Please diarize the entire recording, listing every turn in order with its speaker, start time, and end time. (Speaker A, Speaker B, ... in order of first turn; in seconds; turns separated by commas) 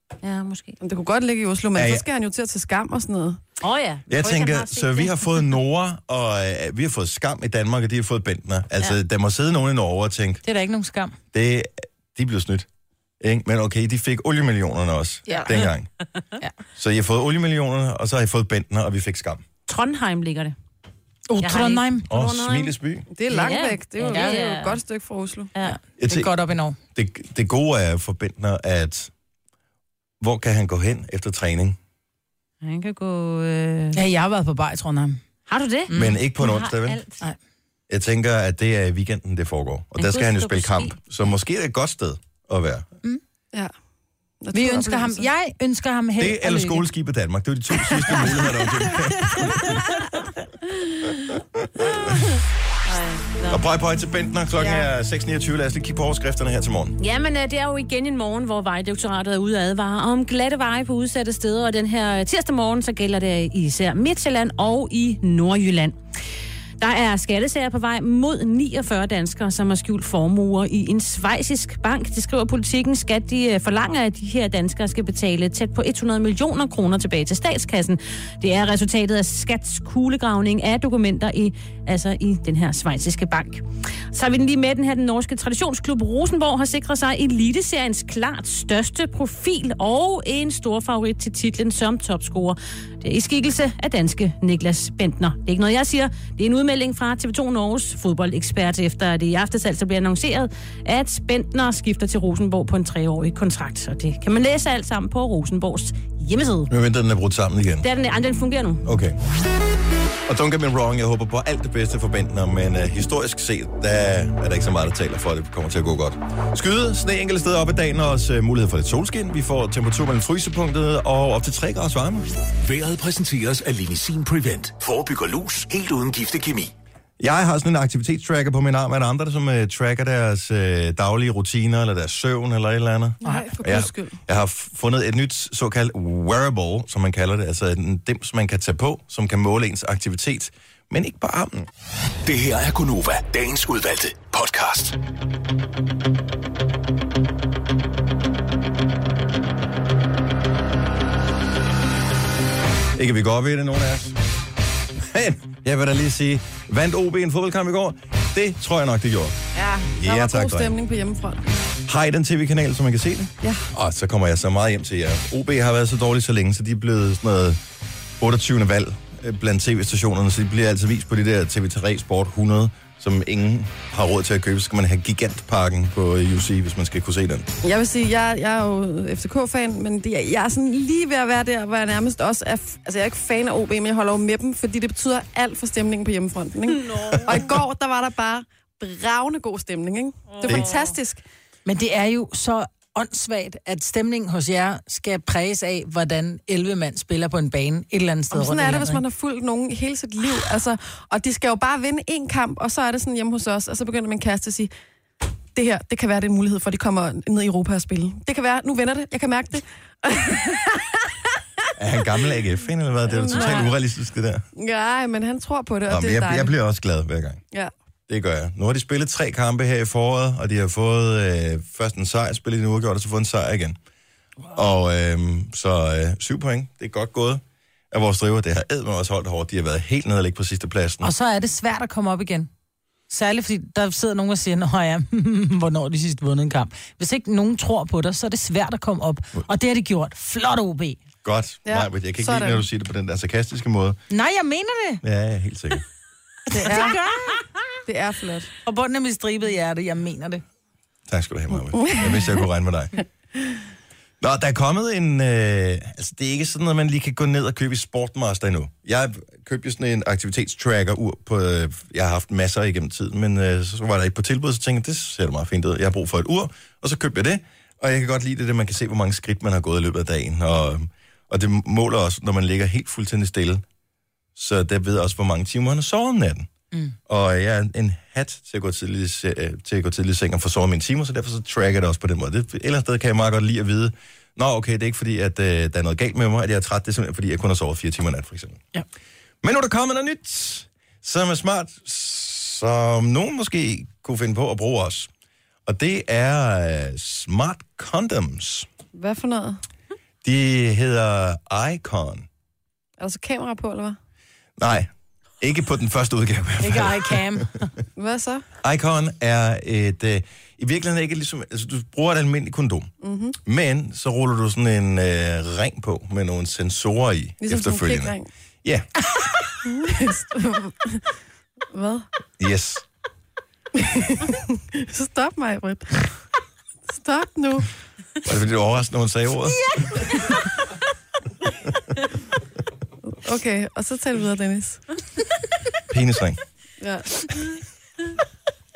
Speaker A: 0.2-0.8, Speaker B: 0.8-3.4, Speaker C: 1.7-2.0, Speaker A: 3.6-5.5, Speaker C: 4.1-10.4, Speaker D: 10.4-11.2, Speaker C: 11.3-12.7, Speaker C: 13.2-15.9, Speaker C: 16.8-19.4, Speaker A: 19.7-20.5, Speaker D: 21.3-22.1, Speaker A: 21.4-22.7, Speaker C: 22.1-23.1, Speaker B: 23.1-25.5, Speaker A: 23.3-24.8, Speaker D: 24.1-24.4, Speaker D: 25.6-26.8, Speaker C: 26.0-26.3, Speaker C: 26.9-29.1, Speaker C: 30.2-31.8, Speaker A: 32.6-34.0, Speaker D: 33.9-35.2, Speaker A: 35.5-37.2, Speaker D: 35.9-36.2, Speaker C: 35.9-37.0, Speaker C: 37.9-42.9, Speaker A: 40.0-40.9, Speaker B: 44.4-45.3, Speaker D: 44.5-46.9, Speaker C: 46.2-49.9, Speaker D: 49.2-50.2, Speaker C: 51.5-52.2, Speaker A: 52.8-53.6, Speaker C: 53.5-57.0, Speaker A: 57.0-66.0, Speaker A: 66.8-106.7, Speaker C: 106.7-107.9, Speaker A: 107.8-108.9, Speaker C: 108.8-109.2, Speaker C: 110.3-122.3, Speaker E: 122.6-126.7, Speaker C: 127.2-141.7, Speaker B: 133.2-134.2, Speaker D: 133.2-133.5, Speaker E: 142.2-144.9, Speaker C: 152.9-154.2, Speaker C: 155.0-159.4, Speaker C: 159.9-160.8, Speaker B: 160.0-161.4, Speaker C: 161.8-167.6, Speaker C: 168.2-177.5, Speaker B: 177.6-191.2, Speaker A: 186.7-187.3, Speaker A: 190.3-190.9, Speaker D: 191.7-199.0, Speaker B: 198.3-204.7, Speaker B: 205.5-211.0, Speaker C: 211.8-214.4, Speaker B: 213.1-213.7, Speaker A: 213.3-213.7, Speaker B: 214.6-216.5, Speaker C: 215.8-217.4, Speaker C: 218.1-223.8, Speaker C: 224.5-231.1, Speaker D: 231.0-232.5, Speaker D: 233.1-241.0, Speaker C: 241.2-244.0, Speaker B: 241.7-242.6, Speaker D: 244.1-245.0, Speaker C: 245.0-245.8, Speaker D: 246.5-247.4, Speaker B: 246.5-247.0, Speaker B: 247.9-248.5, Speaker D: 248.6-250.4, Speaker C: 251.1-253.0, Speaker B: 251.8-252.2, Speaker C: 254.2-273.6, Speaker C: 274.4-276.5, Speaker C: 277.1-288.6, Speaker C: 289.4-295.1, Speaker C: 295.6-298.7, Speaker B: 298.9-299.6, Speaker C: 300.2-302.3, Speaker B: 303.0-304.0, Speaker C: 304.6-307.7, Speaker D: 306.6-307.7, Speaker B: 307.9-308.4, Speaker C: 308.6-312.9, Speaker B: 313.0-313.4, Speaker C: 313.4-318.9, Speaker B: 317.4-318.3, Speaker B: 319.6-321.1, Speaker B: 321.7-322.1, Speaker C: 322.4-322.8, Speaker B: 323.8-326.1, Speaker B: 326.9-327.7, Speaker C: 328.2-330.2, Speaker B: 333.1-334.9, Speaker C: 335.9-336.4, Speaker B: 336.8-337.4